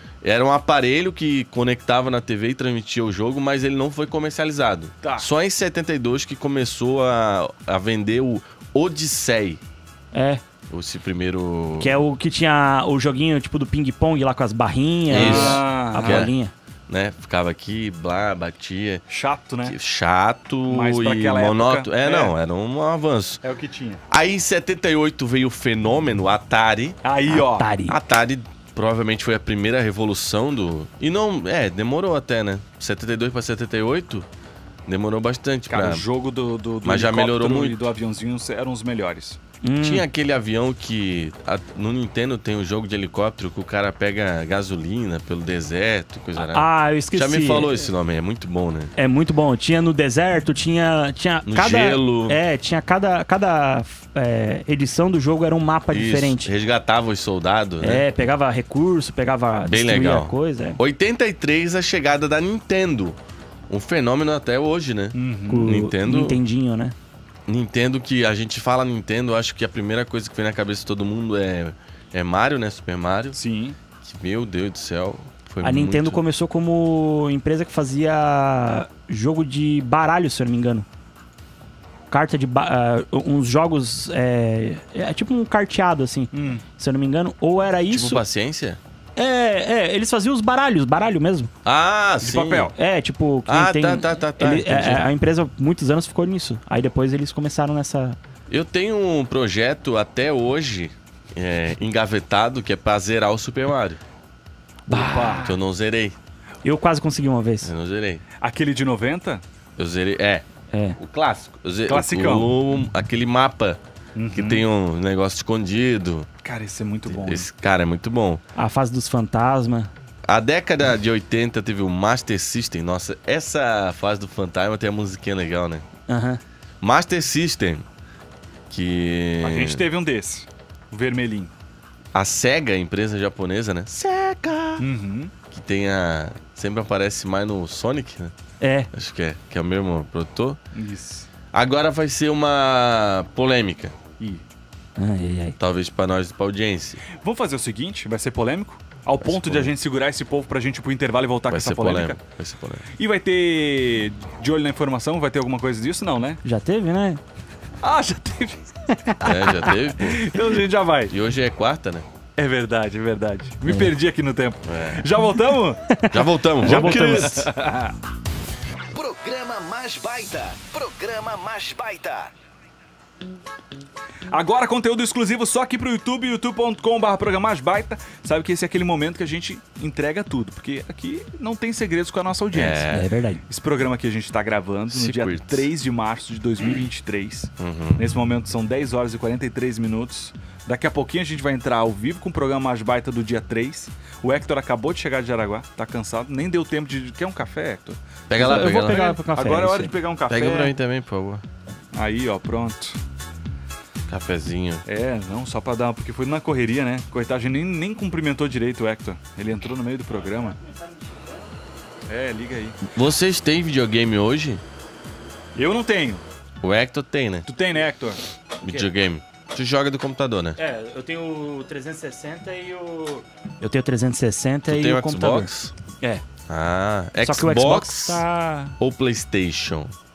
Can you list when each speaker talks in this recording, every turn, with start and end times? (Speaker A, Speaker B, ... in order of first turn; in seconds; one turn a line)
Speaker A: 0.2-9.6
Speaker B: 5.0-5.3
Speaker C: 10.1-10.4
Speaker A: 10.7-12.0
Speaker C: 11.8-16.5
Speaker B: 15.1-16.3
Speaker A: 15.1-16.3
Speaker A: 16.9-19.0
Speaker B: 19.1-19.8
Speaker A: 19.6-23.4
Speaker B: 20.7-22.3
Speaker B: 23.4-24.0
Speaker A: 24.1-26.9
Speaker B: 27.0-27.7
Speaker C: 27.3-28.0
Speaker A: 27.9-34.3
Speaker A: 34.9-36.0
Speaker B: 35.7-39.4
Speaker A: 36.8-37.8
Speaker C: 39.6-40.1
Speaker A: 39.8-48.9
Speaker C: 46.4-47.7
Speaker C: 49.0-56.5
Speaker A: 51.5-52.4
Speaker A: 55.9-58.0
Speaker C: 57.8-60.8
Speaker A: 59.7-63.2
Speaker A: 63.7-66.4
Speaker B: 65.1-65.8
Speaker C: 65.5-66.9
Speaker A: 67.5-73.4
Speaker B: 73.3-73.8
Speaker A: 74.0-76.2
Speaker C: 75.6-80.9
Speaker C: 82.1-88.2
Speaker B: 86.3-86.6
Speaker A: 87.9-88.8
Speaker C: 89.2-91.5
Speaker A: 91.6-92.7
Speaker B: 92.2-92.7
Speaker C: 92.8-98.2
Speaker A: 93.5-95.1
Speaker A: 98.5-104.0
Speaker B: 104.9-105.5
Speaker C: 104.9-105.6
Speaker A: 105.4-106.2
Speaker C: 106.6-107.7
Speaker A: 107.6-108.2
Speaker B: 108.4-109.4
Speaker A: 109.8-110.4
Speaker C: 110.7-111.0
Speaker A: 111.0-113.8
Speaker B: 111.9-112.5
Speaker B: 114.2-114.6
Speaker A: 114.3-116.3
Speaker B: 116.4-117.5
Speaker A: 117.1-118.4
Speaker C: 118.6-119.9
Speaker A: 120.3-125.8
Speaker C: 126.1-126.4
Speaker A: 126.8-127.9
Speaker A: 128.7-129.8
Speaker B: 129.4-131.5
Speaker A: 132.1-134.8
Speaker B: 134.8-135.3
Speaker A: 135.5-138.3
Speaker C: 138.6-138.9
Speaker A: 138.9-140.6
Speaker B: 140.7-141.3
Speaker A: 141.5-144.0
Speaker C: 145.0-145.6
Speaker A: 145.6-147.0
Speaker B: 147.1-152.2
Speaker A: 149.2-149.7
Speaker A: 151.5-152.8
Speaker B: 153.0-156.4
Speaker C: 156.4-157.2
Speaker B: 157.8-161.1
Speaker A: 159.2-160.3
Speaker A: 161.1-162.1
Speaker B: 162.4-166.0
Speaker A: 164.7-165.1
Speaker A: 166.1-167.5
Speaker C: 166.6-167.3
Speaker B: 166.6-167.9
Speaker D: 168.9-172.3
Speaker B: 174.3-182.9
Speaker A: 182.5-183.1
Speaker C: 182.9-183.4
Speaker B: 183.5-200.7
Speaker A: 184.9-185.7
Speaker A: 187.6-188.0
Speaker A: 198.3-199.1
Speaker C: 198.4-199.9
Speaker A: 200.3-201.4
Speaker B: 201.9-203.0
Speaker A: 204.1-204.8
Speaker B: 204.9-210.6
Speaker B: 212.1-212.8
Speaker A: 212.9-214.6
Speaker B: 215.6-216.2
Speaker A: 216.6-217.5
Speaker B: 217.4-218.2
Speaker A: 218.6-220.6
Speaker C: 220.6-226.2
Speaker A: 224.7-225.7
Speaker A: 226.5-228.2
Speaker C: 227.2-228.8
Speaker A: 228.8-229.9